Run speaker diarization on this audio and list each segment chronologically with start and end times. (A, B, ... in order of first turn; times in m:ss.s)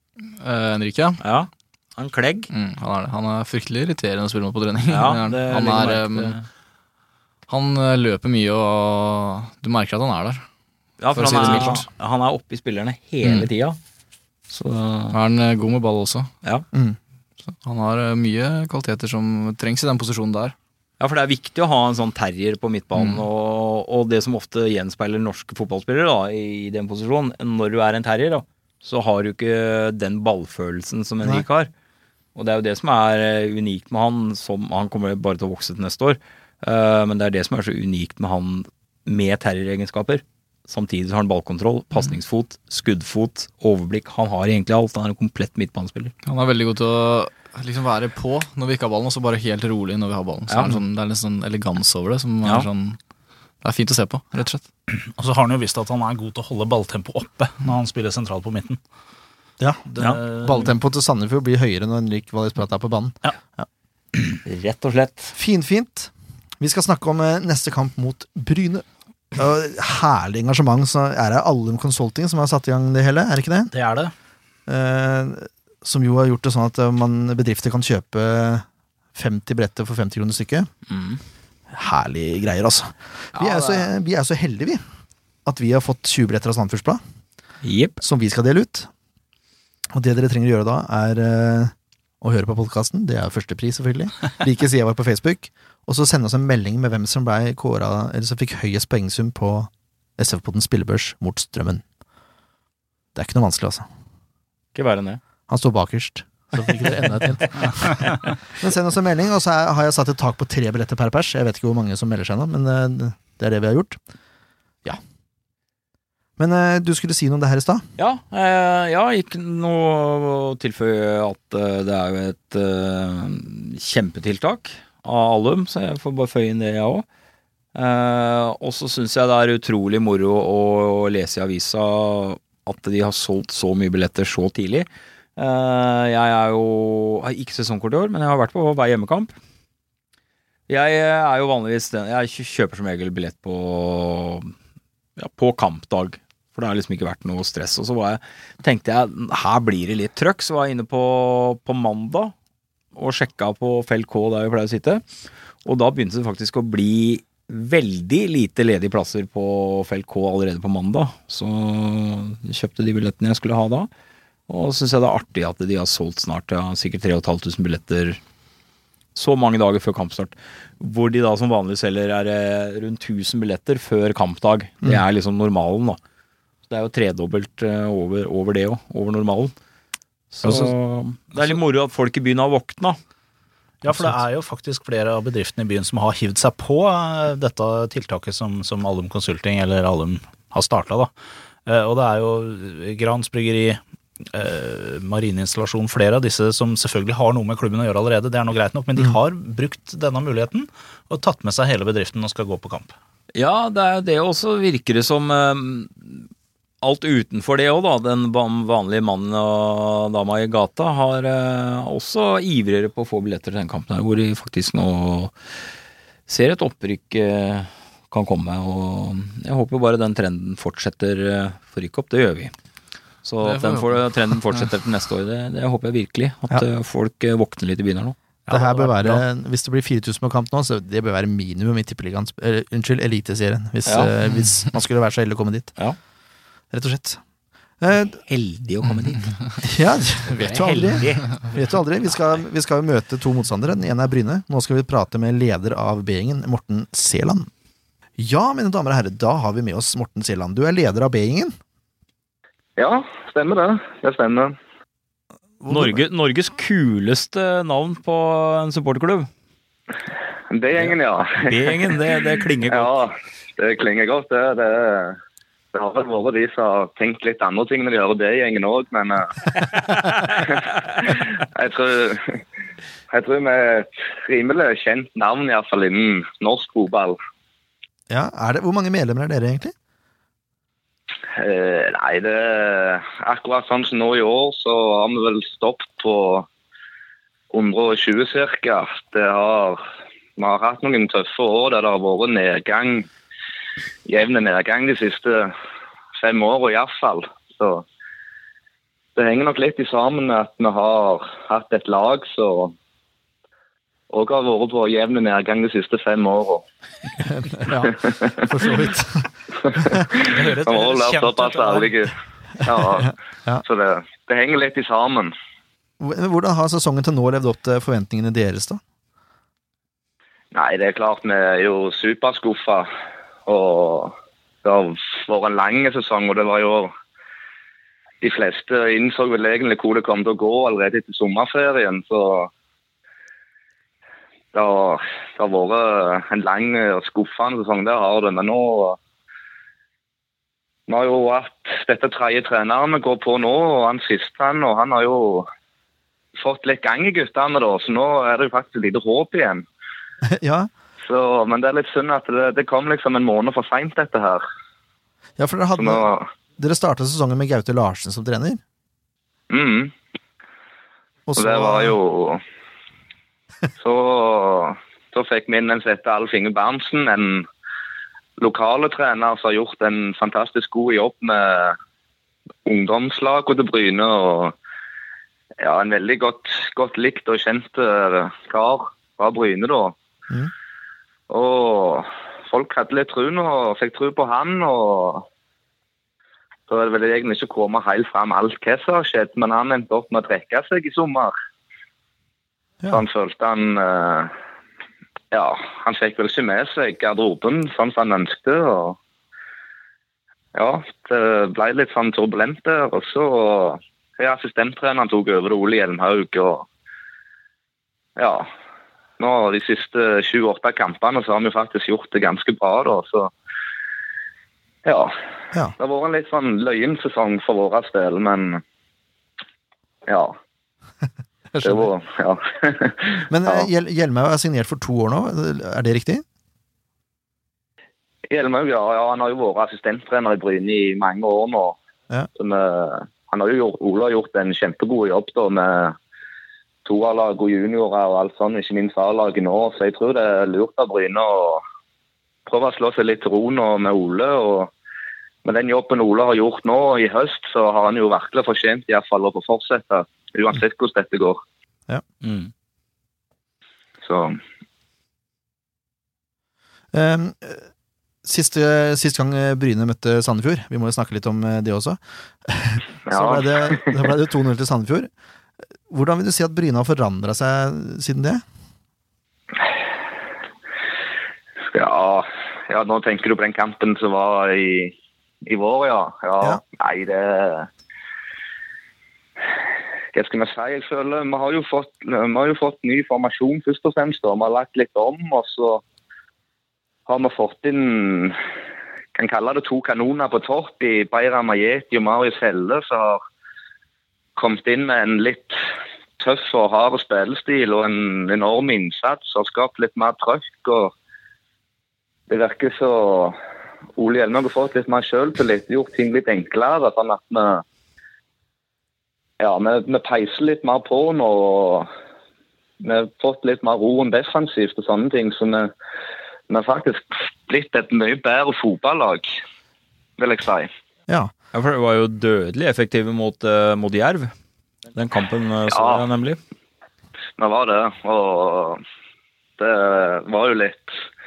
0:00.4-0:01.2 A
0:01.2-0:02.5 B
0:02.5-0:06.4 A
0:04.9-0:06.4 B
0:07.5-0:10.4 A
0:11.0-0:13.8 B
0:11.1-0:11.8 A
0:13.2-0:13.5 A
0:14.5-0:15.2 B
0:15.1-0:16.3 A
0:17.4-0:20.5 A
0:21.0-0:31.7 B
0:23.0-0:23.2 A
0:32.3-0:46.1 B
0:46.2-0:53.0 A
0:50.5-0:50.8 B
0:53.6-0:54.6 A
0:54.9-0:58.8 C
0:59.6-1:03.6 D
0:59.9-1:00.7 C
1:04.4-1:05.3 B
1:05.3-1:08.8 D
1:09.4-1:13.7 D
1:13.7-1:14.1 C
1:14.7-1:20.7 D
1:20.9-1:21.2 B
1:21.7-1:24.8 D
1:23.3-1:23.9 B
1:25.4-1:27.0 D
1:27.6-1:28.0 B
1:28.0-1:28.9 D
1:29.9-1:41.8 D
1:43.1-1:43.8 D
1:44.7-1:45.2 B
1:45.5-1:54.0 D
1:56.4-1:57.8 D
1:58.0-2:07.0 B
2:07.7-2:19.3 B
2:20.7-2:24.5 B
2:25.2-2:32.3 B
2:32.9-2:35.0 B
2:35.6-2:43.9 B
2:44.5-2:48.2 B
2:49.1-2:56.0 B
2:56.7-2:59.5 B
3:00.3-3:03.0 B
3:00.4-3:00.7 C
3:01.3-3:01.6 C
3:03.8-3:11.1 C
3:11.6-3:22.9 C
3:23.3-3:26.3 B
3:26.8-3:35.3 B
3:36.3-3:42.5 B
3:43.2-3:49.2 B
3:43.4-3:44.0 A
3:48.5-3:55.7 D
3:53.8-3:54.1 B
3:56.7-3:57.2 D
3:57.8-3:58.2 D
3:58.2-3:59.4 B
3:59.6-4:07.5 D
4:00.2-4:01.6 B
4:08.2-4:11.5 D
4:12.8-4:14.6 E
4:15.6-4:16.0 D
4:15.7-4:19.3 B
4:20.5-4:25.2 E
4:20.8-4:22.9 B
4:25.7-4:29.3 E
4:30.4-4:32.4 E
4:33.1-4:37.2 E
4:38.1-4:39.7 D
4:41.3-4:46.5 E
4:47.5-4:49.8 E
4:50.4-4:53.1 E
4:54.0-4:55.5 E
4:56.2-4:57.8 E
4:59.2-5:02.7 E
5:04.1-5:06.6 E
5:07.2-5:09.3 D
5:09.7-5:13.1 E
5:10.2-5:11.9 C
5:12.7-5:13.6 D
5:13.6-5:15.3 E
5:16.0-5:18.8 D
5:20.5-5:22.9 E
5:23.4-5:26.9 E
5:28.2-5:32.5 E
5:34.5-5:39.0 E
5:40.9-5:45.5 E
5:46.4-5:49.6 E
5:50.3-5:50.7 D
5:51.0-5:54.4 E
5:55.4-5:56.0 D
5:55.8-5:56.3 E
5:56.6-5:58.6 D
5:59.5-5:59.9 E
6:01.3-6:01.9 D
6:01.4-6:02.4 E
6:03.8-6:07.5 E
6:08.4-6:11.8 E
6:12.6-6:14.5 E
6:15.6-6:20.0 E
6:21.3-6:25.2 E
6:26.7-6:31.3 E
6:32.9-6:34.3 E
6:35.3-6:39.0 E
6:40.5-6:46.6 E
6:48.2-6:48.5 E
6:49.2-6:53.3 E
6:54.8-6:55.1 E
6:55.8-6:58.6 E
7:00.1-7:00.3 E
7:01.5-7:01.9 D
7:01.6-7:03.7 E
7:03.3-7:06.2 D
7:08.3-7:11.8 E
7:12.4-7:16.0 E
7:16.8-7:21.6 E
7:22.4-7:24.7 E
7:25.4-7:31.4 E
7:32.2-7:32.5 B
7:34.0-7:34.4 E
7:36.9-7:37.6 D
7:38.2-7:45.1 D
7:43.1-7:44.0 E
7:45.9-7:48.4 D
7:51.7-7:54.9 E
7:55.4-7:57.7 E
8:00.1-8:05.8 E
8:07.0-8:08.4 E
8:09.1-8:13.2 E
8:14.4-8:15.6 E
8:16.2-8:20.9 E
8:22.3-8:23.4 E
8:24.0-8:27.6 E
8:29.4-8:31.9 E
8:32.8-8:35.7 E
8:36.5-8:39.4 E
8:40.2-8:40.7 E
8:41.5-8:44.3 B
8:44.9-8:46.4 B
8:45.7-8:46.0 E
8:47.4-8:48.8 E
8:49.6-8:51.0 E